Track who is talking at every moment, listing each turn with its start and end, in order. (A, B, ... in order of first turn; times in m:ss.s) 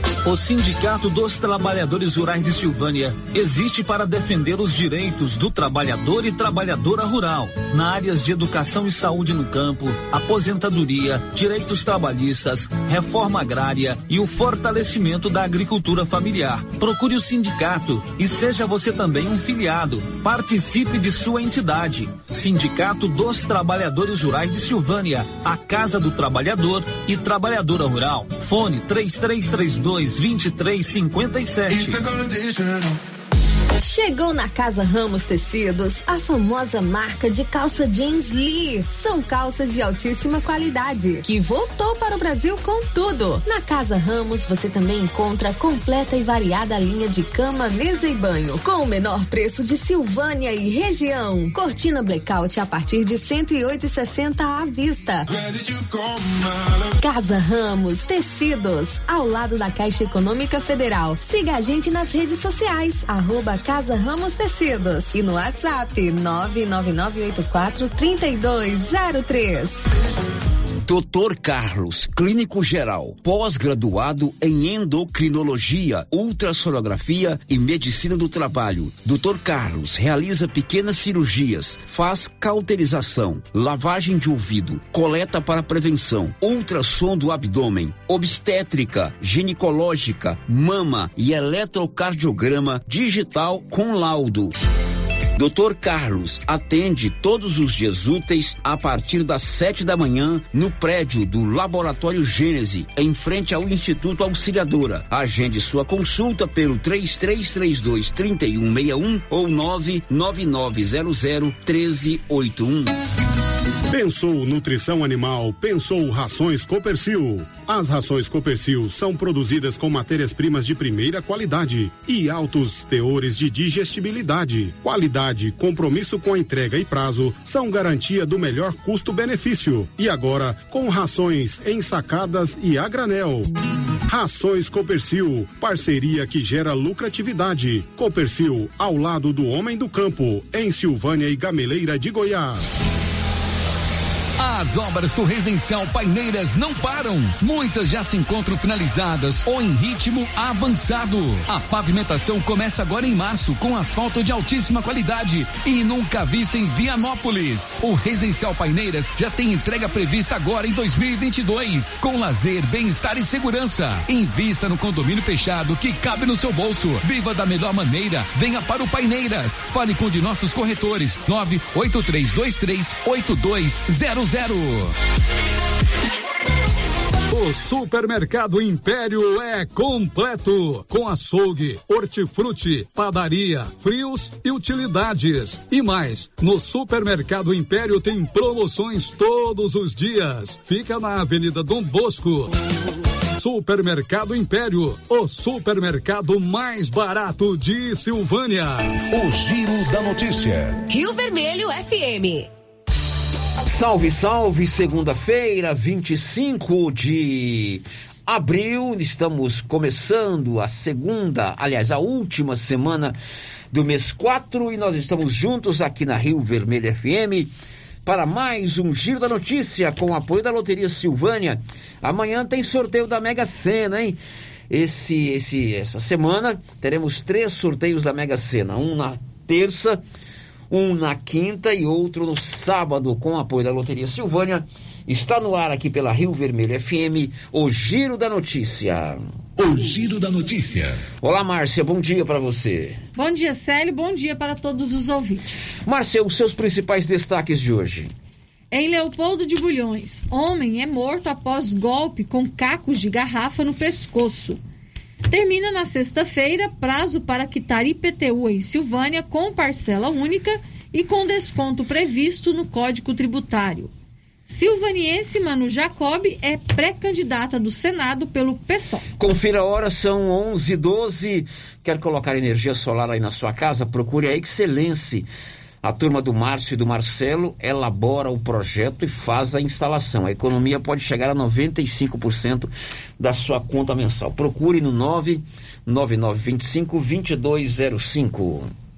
0:00.2-0:32.1 A
0:33.8-0:55.3 B
0:57.0-1:09.8 B
1:10.8-1:34.6 C
1:35.4-1:53.0 C
1:53.9-2:13.5 D
2:14.1-2:22.8 D
2:24.4-2:54.9 E
2:57.3-3:12.6 F
3:13.4-3:18.9 F
3:19.1-3:20.8 G
3:20.9-3:22.5 B
3:23.6-3:33.2 C
3:33.7-3:37.5 C
3:38.0-3:44.2 C
3:44.7-3:50.0 C
3:50.7-3:59.2 C
3:59.6-4:01.0 G
4:01.2-4:03.0 C
4:03.2-4:05.6 H
4:05.9-4:08.1 C
4:08.7-4:14.6 H
4:15.3-4:23.9 H
4:24.5-4:29.0 H
4:29.2-4:35.3 C
4:35.8-4:48.7 C